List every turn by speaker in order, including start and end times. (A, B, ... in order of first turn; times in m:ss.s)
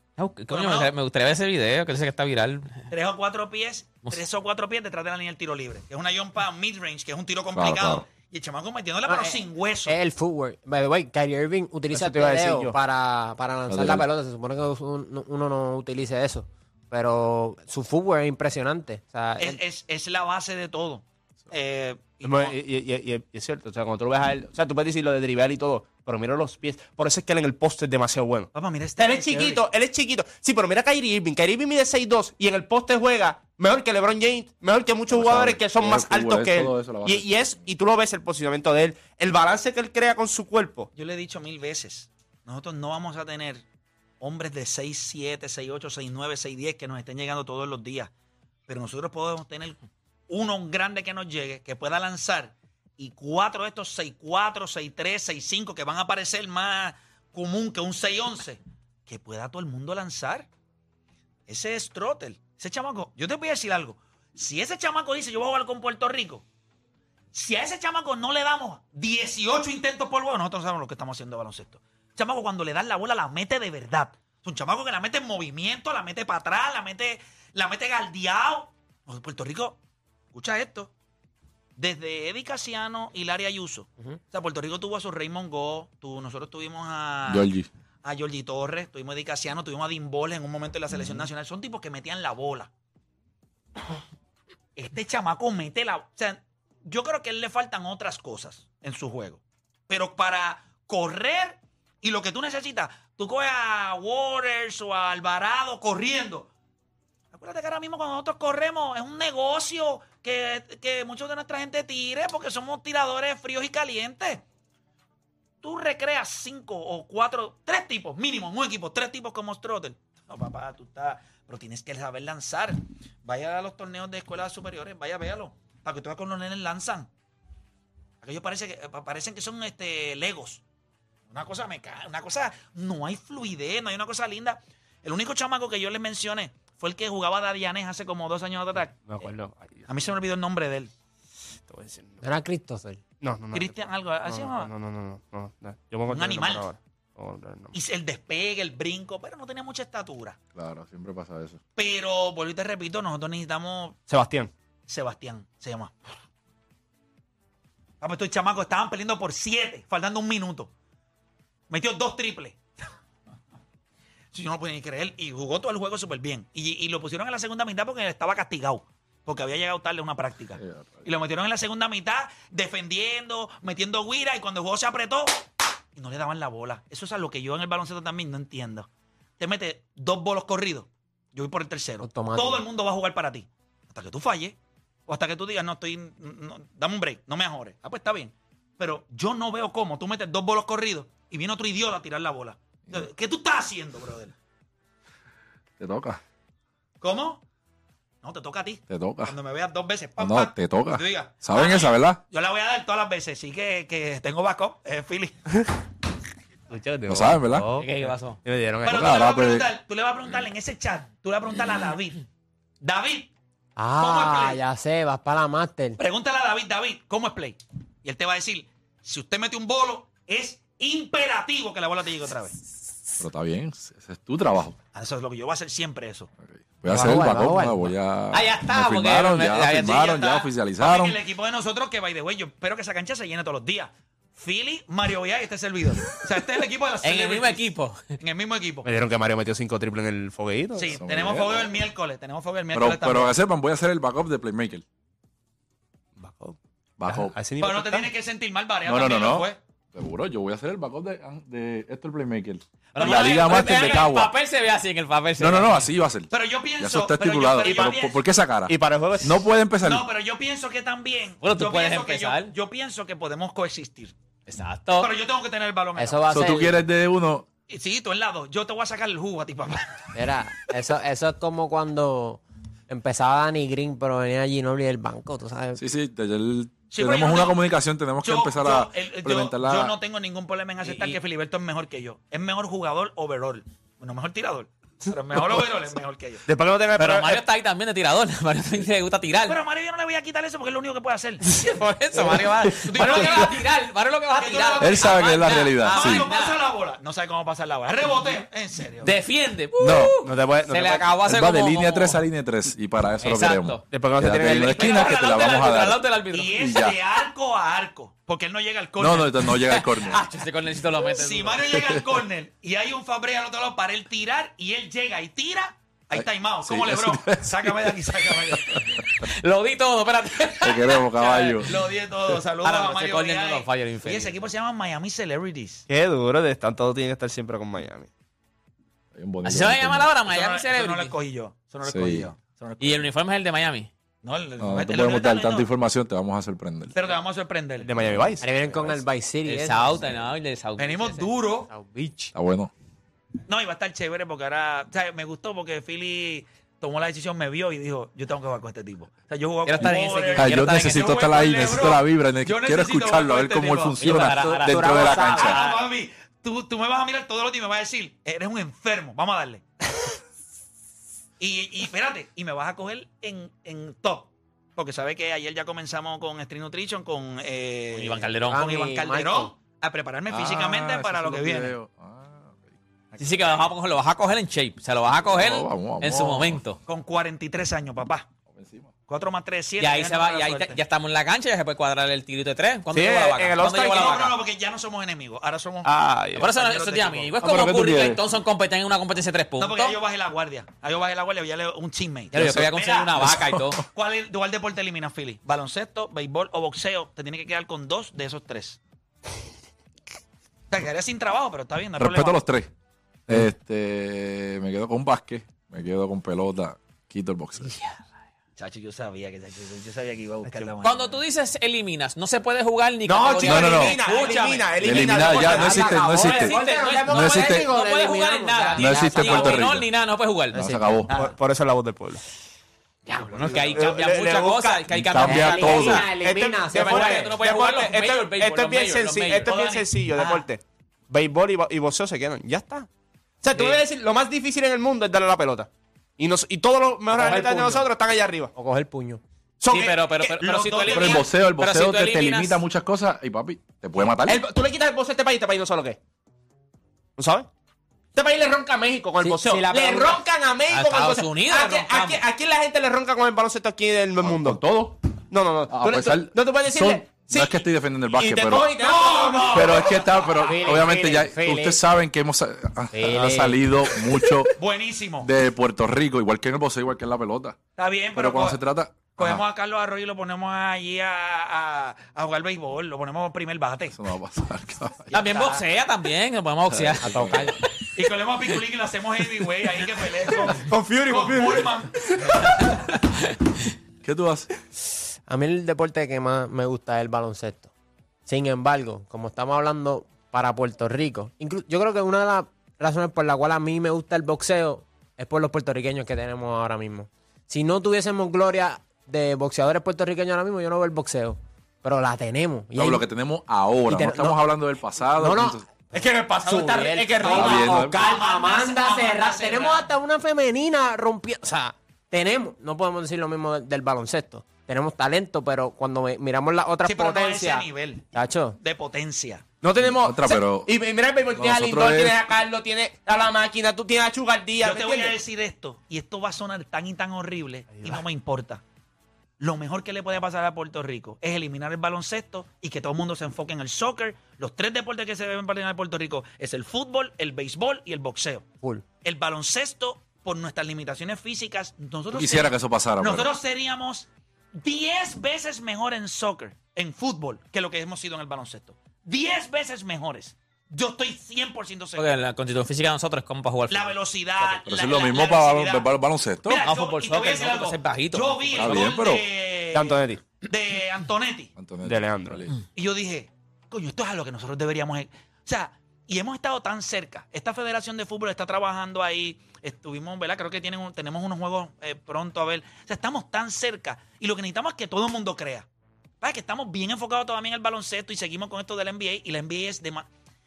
0:00.2-0:02.8 A
0:00.5-0:00.9 B
0:02.9-0:09.9 B
0:07.5-0:08.0 C
0:09.0-0:19.6 D
0:11.9-0:12.8 E
0:13.7-0:14.0 C
0:19.4-0:22.6 B
0:22.2-0:40.9 E
0:28.5-0:29.6 B
0:35.1-0:37.6 C
0:40.9-0:43.6 B
0:44.2-0:48.1 B
0:48.7-1:00.5 B
1:01.5-1:06.4 B
1:07.3-1:19.8 B
1:20.3-1:20.9 B
1:21.8-1:27.5 B
1:27.2-1:27.7 C
1:28.0-1:32.7 B
1:34.8-1:46.5 B
1:47.3-1:54.4 B
1:55.6-2:07.1 B
2:08.2-2:10.6 B
2:11.3-2:19.3 B
2:19.0-2:19.8 E
2:19.9-2:20.9 B
2:21.7-2:22.2 E
2:22.2-2:23.0 D
2:23.2-2:27.8 E
2:23.5-2:24.7 B
2:26.1-2:26.6 B
2:27.7-2:30.4 B
2:30.5-2:31.6 C
2:31.8-2:34.0 B
2:34.1-2:34.5 E
2:34.9-2:35.9 B
2:38.0-2:40.7 B
2:41.7-2:42.6 B
2:44.3-2:55.4 B
2:50.6-2:51.0 C
2:56.0-2:58.9 B
2:59.4-3:14.3 B
3:02.0-3:02.6 D
3:15.8-3:16.2 C
3:17.0-3:17.4 B
3:18.2-3:25.6 B
3:18.9-3:19.4 C
3:20.2-3:22.2 C
3:26.7-3:29.0 E
3:27.1-3:27.7 C
3:27.8-3:28.4 A
3:28.8-3:32.2 B
3:28.8-3:29.7 C
3:32.8-3:33.3 B
3:33.8-3:36.0 D
3:34.0-3:34.6 B
3:36.0-3:42.6 B
3:43.2-3:44.8 C
3:44.9-3:46.3 B
3:46.4-3:51.2 C
3:46.9-3:47.9 D
3:48.3-3:50.4 A
3:50.8-3:57.7 B
3:57.0-3:58.0 A
3:58.2-3:58.9 B
3:58.8-4:01.0 E
4:00.8-4:03.4 B
4:01.0-4:01.8 C
4:02.7-4:04.8 C
4:06.2-4:06.6 E
4:07.0-4:07.4 C
4:07.1-4:08.1 E
4:07.6-4:09.6 B
4:08.8-4:14.3 C
4:12.9-4:14.1 B
4:12.9-4:15.9 A
4:15.4-4:20.1 C
4:16.3-4:18.2 B
4:17.7-4:17.9 E
4:18.7-4:19.4 E
4:19.8-4:24.1 B
4:21.4-4:22.5 A
4:24.5-4:25.1 A
4:25.0-4:26.4 B
4:26.0-4:26.8 D
4:26.3-4:27.5 C
4:27.7-4:30.1 B
4:30.1-4:35.8 D
4:35.8-4:39.9 C
4:36.9-4:37.6 B
4:38.2-4:46.4 B
4:40.8-4:41.2 A
4:46.5-4:47.4 E
4:47.0-4:49.6 A
4:49.4-4:51.8 B
4:51.6-4:56.6 A
4:52.8-4:53.6 B
4:54.4-4:59.1 B
4:54.8-4:56.3 C
4:59.0-5:02.2 A
4:59.8-5:00.1 C
5:00.2-5:01.2 E
5:01.2-5:06.0 C
5:03.2-5:03.8 A
5:03.9-5:04.9 E
5:04.7-5:05.7 B
5:04.8-5:06.6 A
5:06.3-5:09.5 B
5:06.6-5:07.0 C
5:09.0-5:10.2 C
5:09.7-5:11.6 A
5:11.1-5:18.8 B
5:16.1-5:18.8 C
5:19.4-5:21.7 A
5:20.6-5:21.7 C
5:21.6-5:25.8 B
5:22.6-5:24.4 A
5:25.9-5:28.1 E
5:29.1-5:30.1 C
5:29.4-5:31.1 A
5:30.2-5:33.1 B
5:31.8-5:32.3 C
5:32.8-5:33.9 A
5:34.2-5:35.7 B
5:34.6-5:37.1 C
5:36.9-5:37.9 B
5:37.8-5:38.4 E
5:38.0-5:38.4 C
5:38.4-5:40.0 D
5:39.4-5:41.3 A
5:40.8-5:41.7 B
5:41.7-5:42.3 D
5:42.3-5:42.7 C
5:43.5-5:54.0 B
5:49.6-5:51.4 A
5:50.4-5:55.6 C
5:54.0-5:55.8 A
5:54.0-5:55.6 D
5:55.4-5:59.6 B
6:01.4-6:11.7 B
6:07.9-6:08.6 A
6:08.5-6:09.5 D
6:10.3-6:13.6 C
6:13.2-6:16.8 A
6:15.1-6:16.6 C
6:16.9-6:18.3 B
6:18.5-6:18.9 C
6:19.1-6:20.8 B
6:19.8-6:24.3 A
6:22.9-6:24.2 E
6:23.7-6:27.4 B
6:25.8-6:26.4 E
6:26.4-6:30.0 A
6:27.4-6:28.2 C
6:29.6-6:38.8 B
6:32.3-6:33.8 A
6:32.3-6:32.7 C
6:33.2-6:33.7 C
6:40.7-6:42.4 B
6:42.0-6:42.7 C
6:43.3-6:47.7 C
6:48.6-6:51.2 B
6:50.8-7:00.6 A
6:53.0-6:56.0 E
6:53.4-6:54.0 C
6:54.8-6:56.6 C
6:55.1-6:59.6 D
6:57.1-6:57.7 C
6:58.8-6:59.9 C
7:00.5-7:01.1 C
7:01.1-7:01.4 B
7:01.1-7:02.2 E
7:03.1-7:03.9 B
7:03.3-7:06.1 A
7:03.6-7:04.9 E
7:04.9-7:06.0 C
7:05.2-7:07.3 D
7:05.5-7:12.9 E
7:06.7-7:09.5 A
7:09.4-7:10.4 B
7:13.4-7:18.5 E
7:13.5-7:13.8 A
7:17.1-7:17.8 D
7:18.5-7:19.2 D
7:19.6-7:20.4 E
7:19.7-7:22.6 A
7:20.4-7:21.3 B
7:20.9-7:24.4 C
7:24.2-7:26.0 E
7:27.2-7:27.5 E
7:28.1-7:34.6 E
7:29.2-7:30.2 D
7:30.7-7:32.2 A
7:34.2-7:35.0 C
7:35.3-7:37.6 E
7:35.7-7:38.7 C
7:38.1-7:39.7 E
7:38.8-7:40.3 B
7:39.5-7:44.5 C
7:40.4-7:41.8 D
7:42.9-7:43.6 D
7:44.6-7:45.3 B
7:45.2-7:47.6 C
7:47.8-7:48.6 B
7:48.1-7:49.4 C
7:49.1-7:54.0 B
7:53.9-7:55.1 C
7:55.1-7:55.6 B
7:55.1-7:57.4 A
7:56.7-7:57.6 C
7:57.0-7:57.5 D
7:57.9-8:02.8 B
8:00.6-8:02.2 E
8:04.0-8:04.5 C
8:05.3-8:07.7 D
8:08.2-8:23.1 D
8:22.8-8:25.7 C
8:23.9-8:24.4 D
8:25.2-8:25.6 D
8:25.9-8:27.9 E
8:26.4-8:38.6 D
8:27.3-8:28.0 C
8:28.0-8:29.9 B
8:36.8-8:38.1 B
8:38.6-8:39.4 B
8:39.6-8:45.2 E
8:39.8-8:40.7 C
8:41.3-8:42.2 C
8:44.6-8:48.6 B
8:47.7-8:48.0 E
8:49.4-8:58.4 B
8:59.0-9:04.1 B
9:02.1-9:03.3 C
9:04.6-9:12.1 B
9:12.0-9:14.0 A
9:13.7-9:15.9 B
9:14.4-9:16.7 C
9:16.4-9:21.5 B
9:16.6-9:18.5 A
9:18.6-9:19.2 C
9:19.7-9:20.2 E
9:21.6-9:22.5 C
9:21.8-9:22.4 E
9:22.7-9:35.6 B
9:36.2-9:40.1 B